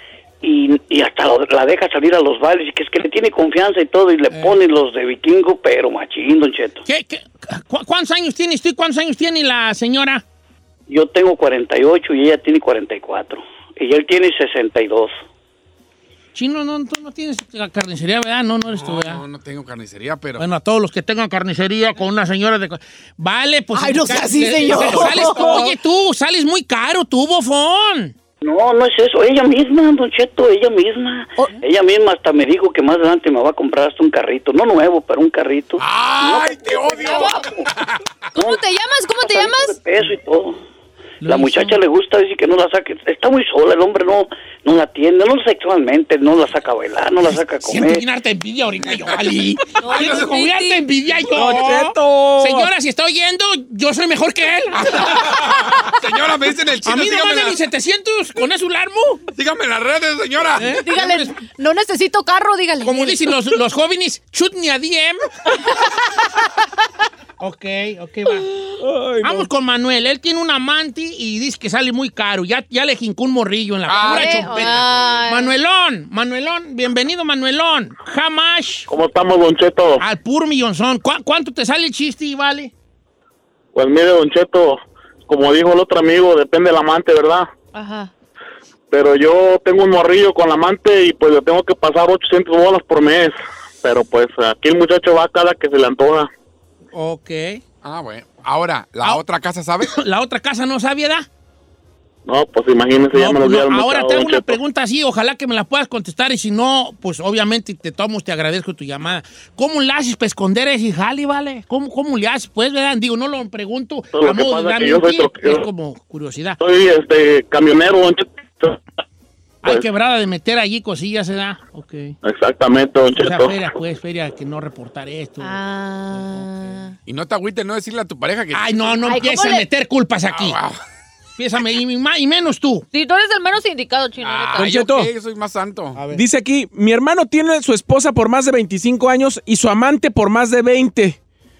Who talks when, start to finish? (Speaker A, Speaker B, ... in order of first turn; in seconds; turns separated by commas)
Speaker A: 0.4-6.8, Speaker B: 6.8-10.2, Speaker A: 10.9-15.1, Speaker B: 16.3-19.2, Speaker C: 18.7-20.4, Speaker B: 20.4-28.1, Speaker D: 23.8-25.7, Speaker E: 24.7-25.7, Speaker A: 28.4-37.7, Speaker C: 35.8-37.9, Speaker D: 37.0-37.5, Speaker D: 38.4-39.8, Speaker A: 38.4-38.6, Speaker A: 39.2-40.6, Speaker B: 41.2-41.8, Speaker A: 41.3-48.0, Speaker B: 47.3-55.7, Speaker C: 49.0-50.4, Speaker D: 49.8-50.8, Speaker E: 51.3-52.7, Speaker C: 54.9-57.6, Speaker B: 56.8-59.2, Speaker C: 59.3-60.8, Speaker B: 60.6-61.4, Speaker D: 60.6-63.3, Speaker B: 62.8-65.3, Speaker B: 67.4-68.5, Speaker E: 68.8-69.5, Speaker B: 69.2-78.9, Speaker C: 73.9-75.2, Speaker D: 74.0-75.5, Speaker F: 78.9-80.0, Speaker B: 80.0-82.7, Speaker F: 83.8-87.5, Speaker D: 87.7-88.1, Speaker F: 88.9-96.3, Speaker B: 96.9-97.6, Speaker C: 97.8-100.0, Speaker B: 99.8-101.3, Speaker F: 102.3-104.6, Speaker B: 103.1-116.6, Speaker F: 114.1-115.7, Speaker F: 116.6-118.8, Speaker B: 119.6-122.2, Speaker F: 122.2-123.6, Speaker B: 123.1-125.6, Speaker D: 125.4-127.0, Speaker B: 126.1-126.5, Speaker C: 127.1-129.3, Speaker B: 128.5-130.6, Speaker D: 129.0-129.7, Speaker C: 130.3-130.8, Speaker B: 131.4-132.9, Speaker D: 132.9-134.7, Speaker C: 134.2-136.0, Speaker E: 134.6-135.1, Speaker B: 136.0-136.2, Speaker E: 136.1-141.2